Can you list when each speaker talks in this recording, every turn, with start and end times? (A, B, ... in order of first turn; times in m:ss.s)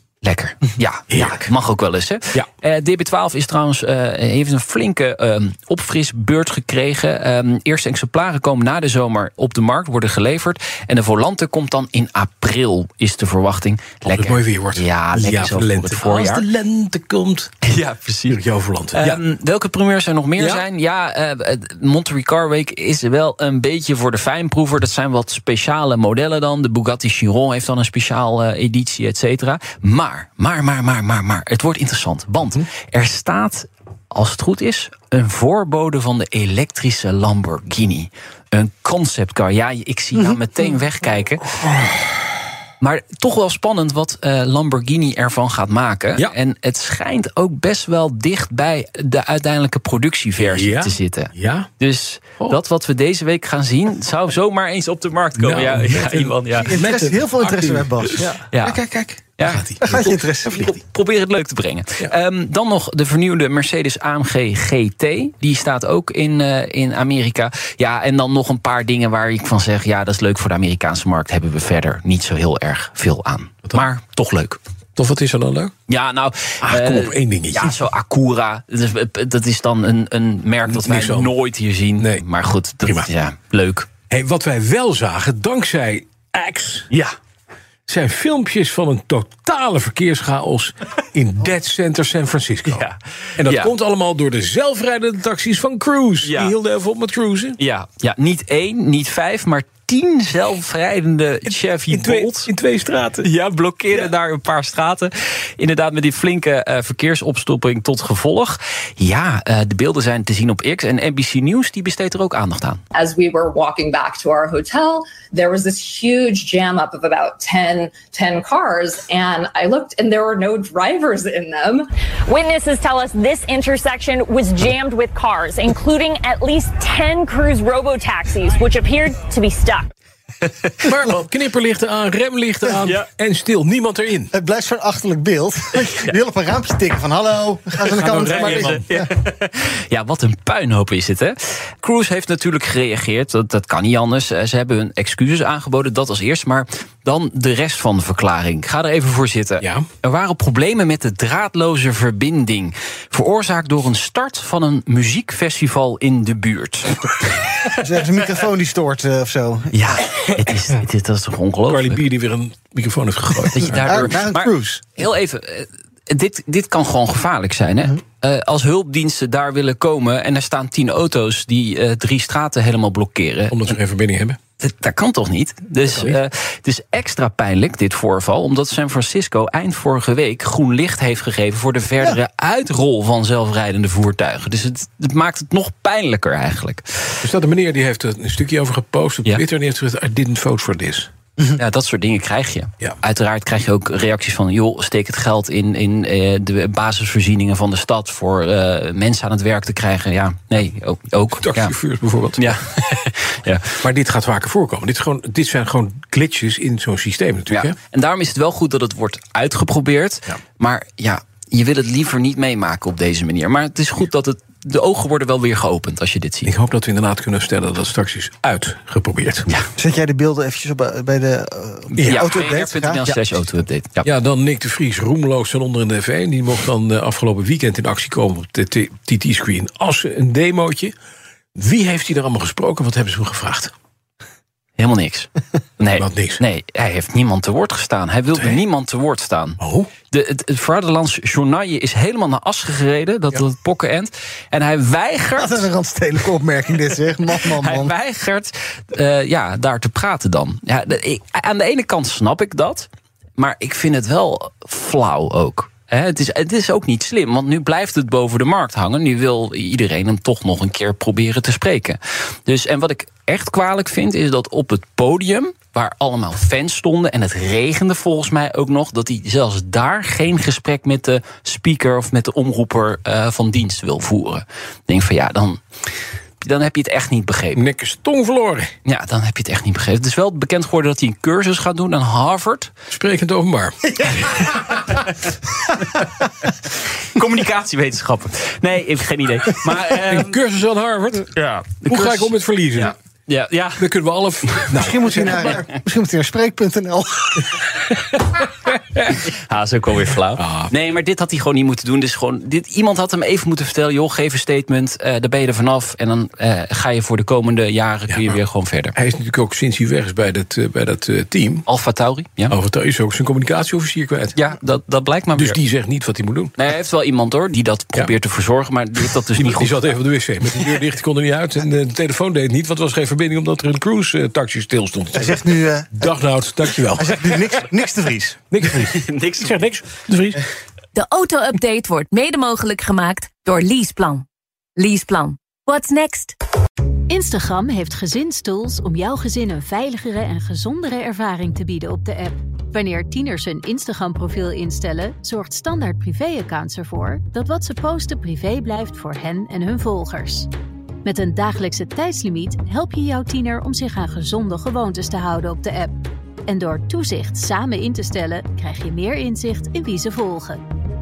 0:00.2-0:16.4 A
0:01.1-0:01.5 B
0:14.0-0:17.5 B
0:17.6-0:41.5 A
0:18.3-0:19.2 B
0:20.4-0:20.7 B
0:41.6-0:41.9 B
0:42.8-0:56.8 A
0:50.4-0:51.7 B
0:55.4-0:59.8 B
0:56.6-0:58.8 C
0:58.5-1:14.6 A
0:59.8-1:00.8 C
1:15.0-1:15.7 B
1:15.9-1:23.9 A
1:16.6-1:17.8 B
1:20.7-1:21.3 B
1:22.0-1:22.2 B
1:22.8-1:23.1 B
1:24.1-1:26.9 B
1:27.9-1:32.9 B
1:32.7-1:33.7 A
1:33.4-1:37.6 B
1:36.2-1:36.5 A
1:37.6-1:42.5 A
1:41.5-1:43.3 B
1:43.2-1:52.8 A
1:52.9-2:01.9 D
2:02.3-2:09.9 E
2:10.8-2:14.3 B
2:12.8-2:13.0 A
2:14.3-2:19.1 C
2:17.9-2:37.1 A
2:18.0-2:18.8 B
2:29.6-2:29.8 B
2:37.8-2:39.7 C
2:39.7-2:42.0 A
2:41.7-2:44.1 B
2:43.5-2:53.8 A
2:43.7-2:45.0 C
2:53.5-2:54.4 B
2:54.6-3:07.2 A
2:55.8-2:56.2 B
3:07.2-3:11.1 B
3:11.6-3:21.8 A
3:21.4-3:22.6 B
3:22.4-3:23.8 A
3:23.8-3:27.8 B
3:27.5-3:36.5 A
3:36.4-3:39.5 B
3:39.8-3:43.2 C
3:42.0-3:42.3 B
3:42.0-3:44.1 A
3:44.0-3:50.9 B
3:51.6-3:53.7 B
3:54.8-3:59.6 A
3:55.9-3:56.4 B
3:58.3-3:58.6 B
3:59.6-3:59.9 B
4:00.1-4:05.6 A
4:05.4-4:07.9 C
4:07.4-4:35.6 A
4:36.4-4:37.6 A
4:37.6-4:38.7 B
4:38.8-4:42.7 A
4:42.9-4:44.7 B
4:47.0-4:50.4 A
4:49.6-4:51.3 B
4:51.3-4:53.9 A
4:51.8-4:52.9 B
4:53.8-4:55.5 B
4:54.4-4:54.8 A
4:54.7-4:57.6 C
4:55.3-4:55.6 A
4:58.0-4:58.3 A
4:58.9-5:08.9 A
5:00.4-5:00.7 B
5:09.0-5:11.6 B
5:11.7-5:12.6 A
5:12.5-5:14.4 B
5:14.3-5:15.6 A
5:15.3-5:16.5 B
5:16.6-5:20.0 A
5:19.4-5:25.4 B
5:25.1-5:26.1 C
5:26.0-5:27.5 B
5:26.9-5:28.4 C
5:28.5-5:30.4 B
5:28.8-5:29.6 A
5:30.9-5:34.2 F
5:34.8-5:36.3 F
5:37.1-5:50.5 G
5:51.0-5:55.9 G
5:56.5-6:00.6 G